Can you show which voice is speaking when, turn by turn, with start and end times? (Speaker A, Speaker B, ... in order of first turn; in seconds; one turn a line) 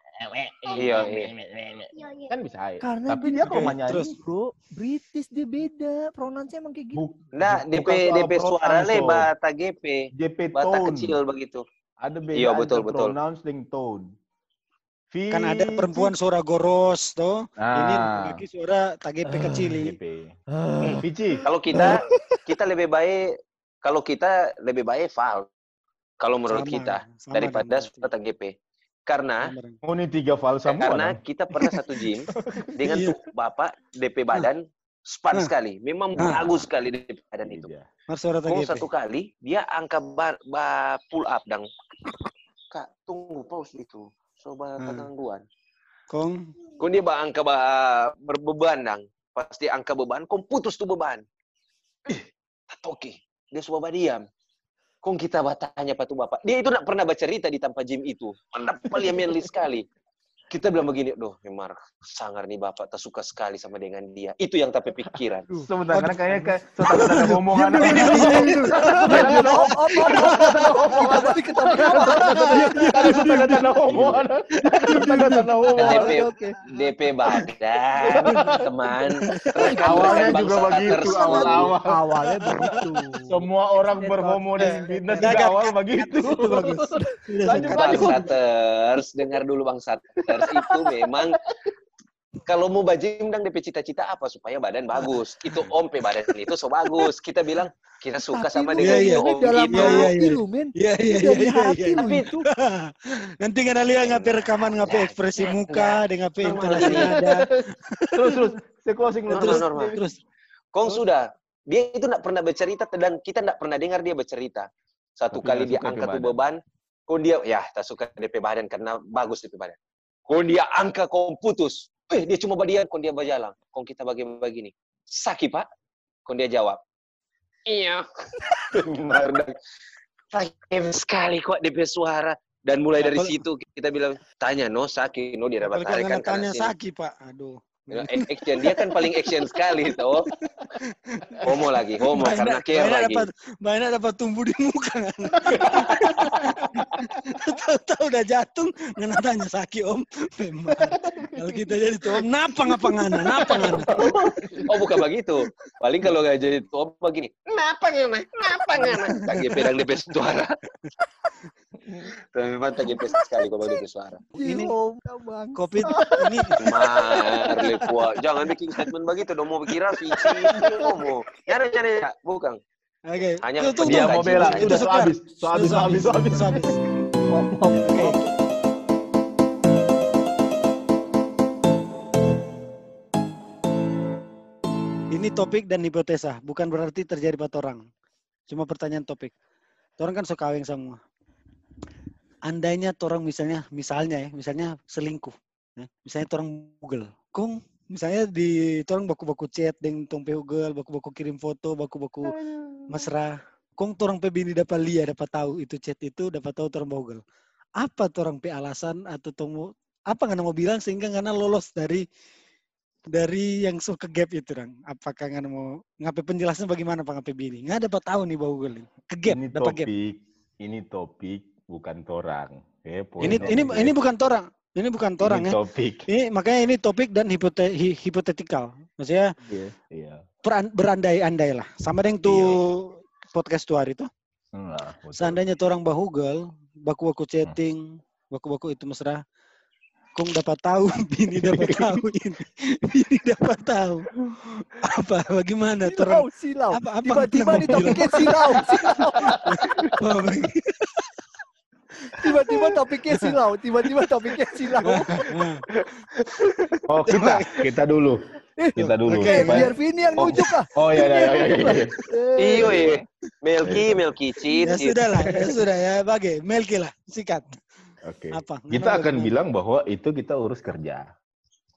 Speaker A: 0.2-4.2
Speaker B: 0.8-1.3
Speaker C: 2.8-7.0
Speaker D: 3.6-4.1
Speaker A: 6.9-9.3
Speaker B: 7.3-11.6
Speaker A: 10.2-11.2
Speaker A: 12.0-14.0
Speaker B: 12.3-13.2
Speaker A: 15.1-16.1
Speaker D: 15.3-20.0
Speaker A: 17.6-18.4
Speaker C: 19.3-19.7
Speaker A: 19.8-20.4
Speaker C: 20.5-21.0
Speaker B: 20.8-23.2
Speaker A: 21.0-21.4
Speaker C: 21.7-22.4
Speaker B: 23.8-25.5
Speaker B: 26.2-28.5
Speaker D: 26.5-28.1
Speaker B: 29.1-29.4
Speaker D: 29.4-29.8
Speaker A: 29.8-31.2
Speaker B: 30.7-37.7
Speaker D: 32.3-33.2
Speaker D: 36.2-36.5
Speaker A: 37.4-37.8
Speaker D: 38.1-38.9
Speaker B: 38.5-41.7
Speaker B: 42.7-45.4
Speaker D: 44.8-45.1
Speaker D: 46.1-46.5
Speaker B: 46.8-51.2
Speaker B: 52.1-54.2
Speaker B: 55.0-59.9
Speaker B: 60.5-65.5
Speaker A: 65.6-76.2
Speaker D: 65.9-66.3
Speaker D: 66.8-71.3
Speaker C: 67.8-68.5
Speaker C: 69.0-73.6
Speaker D: 71.8-73.5
Speaker D: 74.7-75.3
Speaker C: 74.9-76.6
Speaker B: 75.8-81.8
Speaker A: 78.0-78.6
Speaker D: 78.2-78.6
Speaker D: 79.2-80.3
Speaker C: 79.6-80.4
Speaker A: 79.8-82.0
Speaker C: 81.2-85.3
Speaker D: 81.2-81.7
Speaker D: 82.3-82.8
Speaker A: 83.3-86.8
Speaker D: 84.6-88.3
Speaker C: 86.7-87.0
Speaker A: 87.4-88.3
Speaker B: 87.7-91.4
Speaker B: 92.5-100.2
Speaker C: 98.3-102.5
Speaker D: 98.8-102.1
Speaker B: 101.9-102.2
Speaker D: 102.6-108.5
Speaker B: 104.0-107.1
Speaker A: 106.8-107.4
Speaker A: 108.1-110.0
Speaker B: 109.3-110.0
Speaker D: 109.3-110.2
Speaker B: 110.7-114.7
Speaker B: 115.2-119.8
Speaker A: 115.3-116.4
Speaker B: 120.3-125.7
Speaker B: 126.2-126.8
Speaker B: 127.7-128.1
Speaker A: 128.7-129.2
Speaker B: 129.1-129.5
Speaker B: 130.3-136.7
Speaker D: 133.0-133.4
Speaker D: 135.6-139.9
Speaker B: 137.9-140.3
Speaker D: 140.4-154.1
Speaker B: 141.4-143.3
Speaker A: 145.6-146.3
Speaker A: 151.2-151.6
Speaker A: 153.3-155.0
Speaker B: 153.5-154.1
Speaker B: 154.7-160.5
Speaker D: 158.8-159.4
Speaker B: 162.3-164.3
Speaker C: 164.3-166.1
Speaker D: 164.4-164.7
Speaker D: 165.6-166.6
Speaker A: 165.9-166.7
Speaker B: 166.6-172.6
Speaker D: 173.1-177.2
Speaker B: 173.4-174.8
Speaker A: 173.8-176.6
Speaker C: 177.3-178.2
Speaker D: 177.8-178.2
Speaker D: 185.1-187.8
Speaker D: 188.5-189.3
Speaker D: 190.0-191.0
Speaker D: 192.5-202.4
Speaker D: 202.9-207.2
Speaker D: 207.8-212.0
Speaker D: 213.1-219.9
Speaker A: 219.3-223.9
Speaker D: 223.2-225.6
Speaker A: 225.2-226.1
Speaker D: 226.1-229.3
Speaker A: 229.4-230.2
Speaker D: 230.4-234.1
Speaker A: 232.2-232.6
Speaker A: 234.5-235.4
Speaker D: 235.2-239.2
Speaker D: 240.1-250.9
Speaker C: 245.8-249.4
Speaker C: 252.2-255.2
Speaker D: 252.2-253.3
Speaker D: 254.8-255.6
Speaker A: 256.9-258.2
Speaker D: 257.1-257.7
Speaker A: 258.8-261.9
Speaker D: 258.8-260.4
Speaker C: 259.3-262.7
Speaker D: 261.2-261.7
Speaker B: 262.4-265.4
Speaker A: 262.6-263.0
Speaker A: 263.6-264.0
Speaker D: 264.6-267.6
Speaker A: 268.1-271.1
Speaker D: 268.3-269.3